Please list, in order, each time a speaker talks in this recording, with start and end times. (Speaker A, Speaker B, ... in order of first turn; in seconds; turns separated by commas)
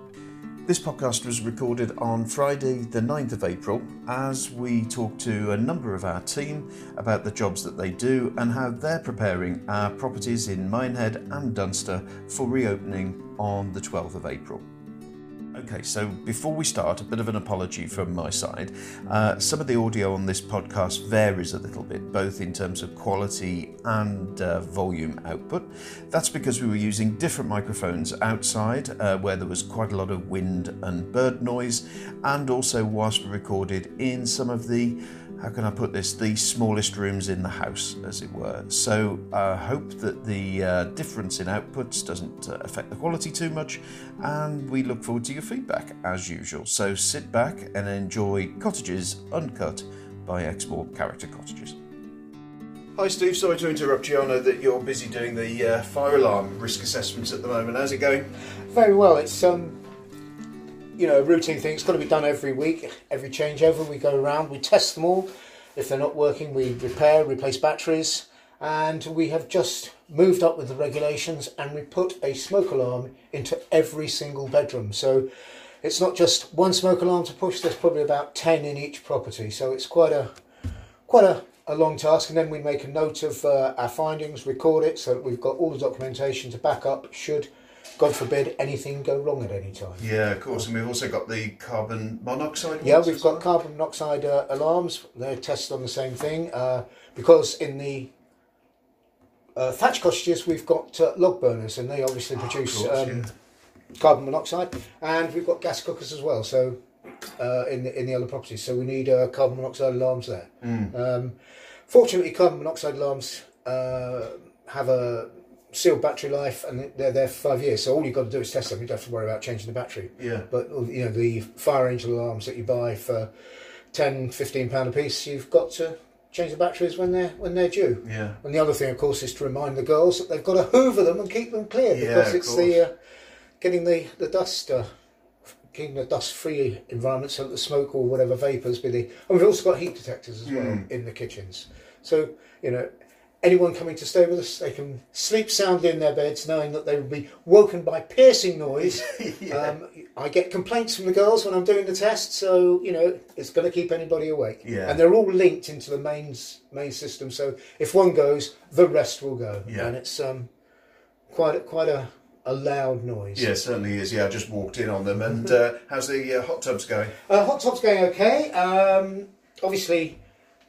Speaker A: 0.7-14.6, Speaker A: 15.5-51.8, Speaker A: 53.0-58.3, Speaker B: 58.7-59.8, Speaker B: 61.0-75.3, Speaker B: 75.8-80.3, Speaker B: 81.1-90.6, Speaker A: 90.0-93.5, Speaker B: 92.8-98.1, Speaker B: 99.5-103.3, Speaker A: 102.4-103.3, Speaker B: 104.0-106.8, Speaker B: 107.4-111.4, Speaker A: 110.6-110.9, Speaker B: 111.9-123.3, Speaker A: 120.2-120.5, Speaker B: 123.9-132.9, Speaker A: 128.0-128.4, Speaker A: 131.9-132.8, Speaker B: 133.6-134.9, Speaker B: 135.7-142.9, Speaker A: 140.5-140.8, Speaker B: 143.4-160.5, Speaker A: 148.8-149.7, Speaker A: 154.6-155.0, Speaker A: 159.7-159.9, Speaker B: 161.3-163.5, Speaker A: 163.3-167.2, Speaker B: 167.2-170.2